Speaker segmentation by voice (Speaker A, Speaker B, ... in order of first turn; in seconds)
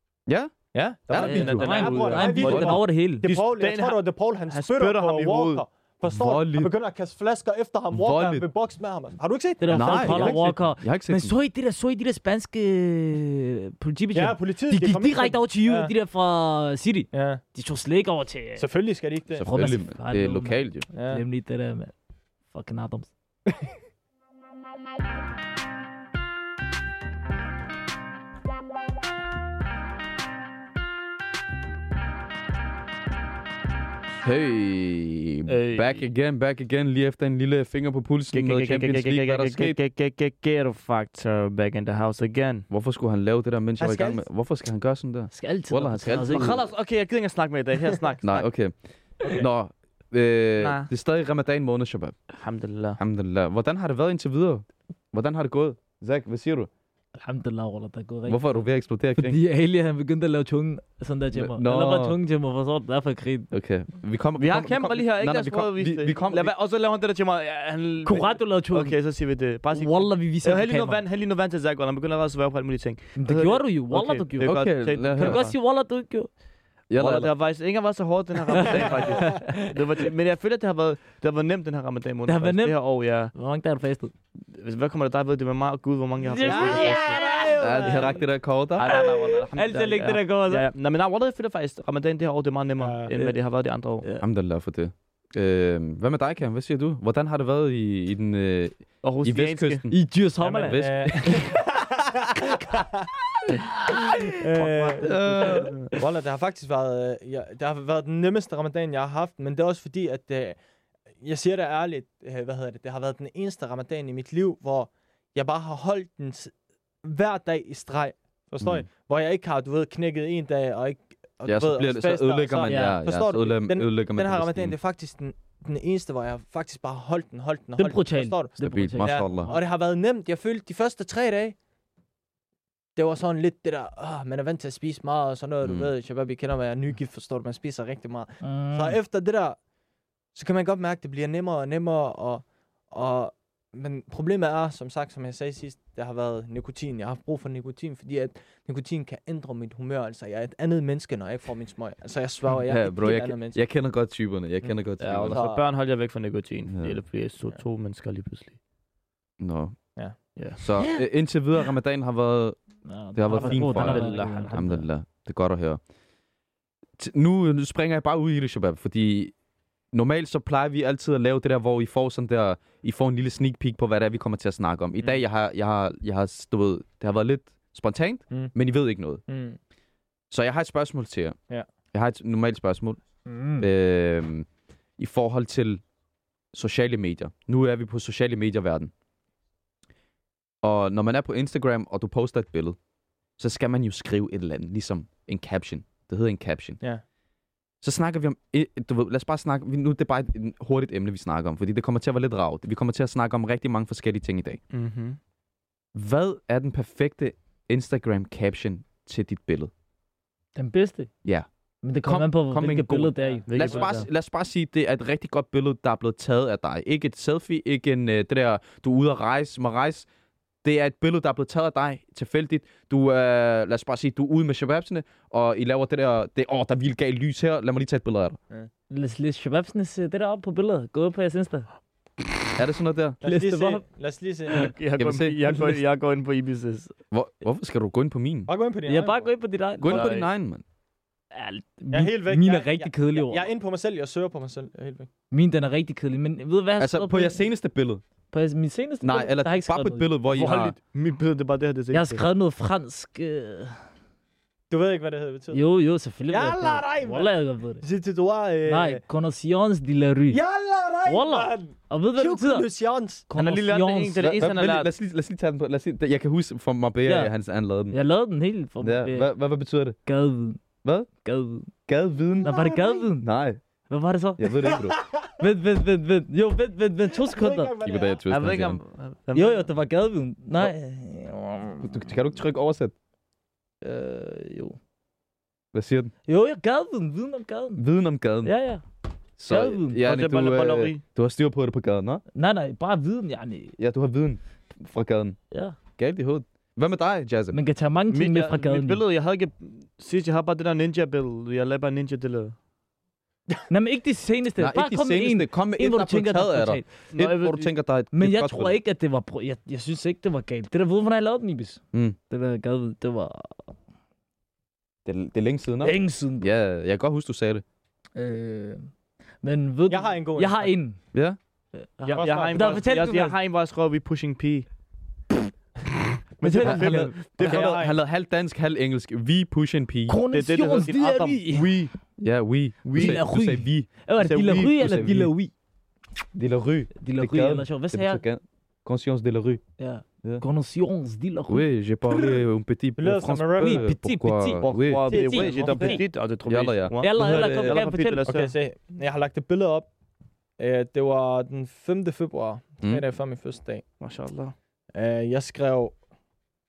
Speaker A: 0.3-0.5, 1.1-2.8, 6.1-6.7, 7.9-8.4, 9.7-11.3, 19.3-20.9, 34.2-39.8, 42.7-46.6, 48.2-52.2, 53.0-56.7, 58.3-59.4, 61.3-62.2, 63.5-66.5, 74.4-75.4, 76.9-77.3, 87.6-88.9, 94.2-100.0, 100.6-101.7, 105.0-105.7, 118.6-118.8, 121.4-124.8, 128.6-129.5, 135.6-135.9, 152.6-155.4, 156.7-156.9, 159.4-159.8, 160.6-162.6, 163.1-165.8, 167.0-169.3, 169.9-179.2, 180.3-181.3, 181.9-183.0, 183.6-184.5, 185.0-185.8, 186.5-188.9, 190.6-192.8, 193.4-196.8, 197.8-204.6, 205.9-209.7, 212.0-220.1, 220.6-228.4, 232.6-233.2, 235.0-235.7, 237.1-238.5, 239.8-240.6, 246.8-248.0, 249.0-250.7, 264.2-267.9, 268.8-269.9, 271.9-272.6, 273.2-273.6, 274.4-275.0, 277.8-278.8, 281.8-282.9, 285.7-286.1, 287.8-288.5, 289.4-292.2, 293.8-295.4, 296.0-297.6, 304.6-308.7, 315.1-317.6, 326.6-330.2, 332.2-333.9, 334.6-335.3, 336.3-339.6, 341.5-345.1, 346.4-347.8
Speaker B: 0.7-10.4, 14.1-15.9, 17.1-17.4, 18.6-19.4, 20.9-21.2, 43.8-44.2, 78.7-79.5, 86.4-88.2, 92.8-93.3, 100.4-103.1, 104.3-105.2, 105.9-110.6, 111.2-116.5, 117.0-131.6, 132.9-139.6, 140.3-153.6, 155.3-155.6, 179.3-179.6, 183.3-183.6, 213.2-213.9, 233.2-234.7, 238.5-239.3, 241.9-245.1, 254.7-255.6, 256.3-259.0, 260.3-263.2, 272.5-273.0, 274.7-275.3, 277.2-278.2, 319.9-320.7, 322.1-322.8, 327.4-327.9, 343.0-343.9, 345.1-346.0, 348.2-349.9, 350.6-353.8, 354.9-355.9
Speaker C: 1.1-5.6, 35.5-36.0, 38.3-42.6, 46.3-48.5, 50.6-50.9, 52.4-53.0, 64.4-75.5, 77.0-83.3, 84.5-87.2, 88.8-94.0, 99.0-99.9, 104.5-105.9, 155.0-158.6, 160.3-160.6, 163.6-164.5, 204.7-205.2, 213.5-214.1, 234.5-236.9, 239.8-240.3, 250.3-252.2, 263.3-264.9, 278.3-279.7, 290.0-291.0, 298.1-302.5, 307.1-307.7, 322.0-324.7, 326.4-327.7, 330.3-331.9, 332.8-333.2, 334.2-334.7, 344.6-348.5, 354.0-354.5
Speaker D: 1.2-3.3, 9.6-18.6, 19.4-21.9, 22.5-23.1, 45.3-46.6, 57.2-58.4, 59.2-63.5, 68.0-69.0, 69.7-71.0, 73.2-76.3, 78.6-79.6, 82.2-82.8, 83.3-84.1, 86.2-88.1, 88.9-90.7, 99.9-100.8, 122.7-123.0, 127.8-129.6, 138.4-139.0, 162.8-164.8, 210.5-211.1, 211.8-213.5, 228.9-231.7, 233.2-233.8, 238.8-240.0, 241.3-243.4, 245.3-247.4, 248.3-250.1, 251.9-253.8, 255.5-257.8, 258.7-260.4, 261.1-262.7, 263.3-264.3, 267.0-267.3, 267.9-269.3, 270.1-270.6, 271.2-271.7, 272.4-273.3, 273.9-274.5, 275.4-277.7, 279.3-281.9, 283.8-284.8, 286.3-287.8, 288.4-288.8, 289.5-290.0, 292.3-293.7, 295.5-295.8, 297.5-299.0, 303.7-306.9, 308.1-313.7, 315.8-316.5, 318.1-318.9, 319.4-321.0, 322.0-323.4, 326.4-327.1, 330.1-331.7, 332.9-335.5, 337.0-338.2, 339.8-341.6, 343.6-346.0, 347.0-348.2